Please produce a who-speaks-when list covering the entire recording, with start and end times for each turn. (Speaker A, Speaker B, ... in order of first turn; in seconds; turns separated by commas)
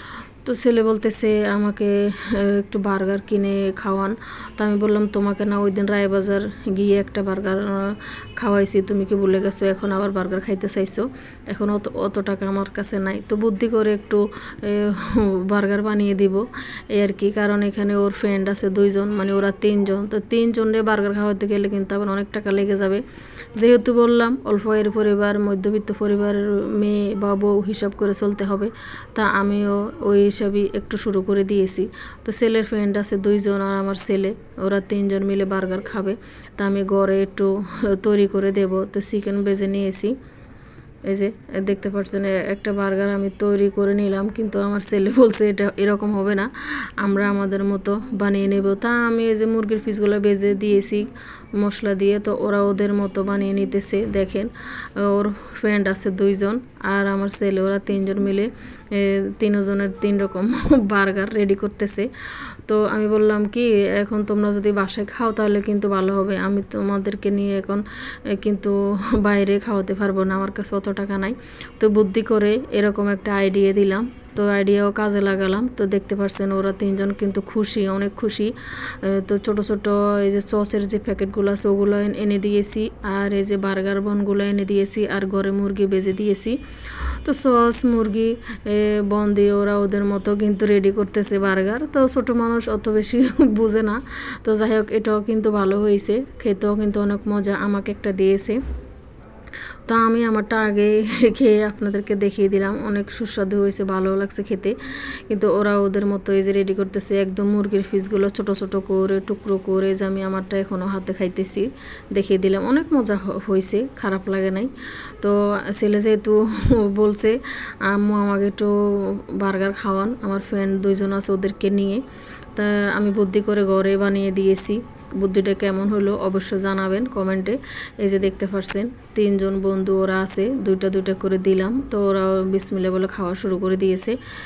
Speaker A: 0.4-23.0, Speaker A: 23.6-40.1, Speaker A: 41.1-98.6, Speaker A: 99.9-104.8, Speaker A: 105.3-122.0, Speaker A: 122.5-134.2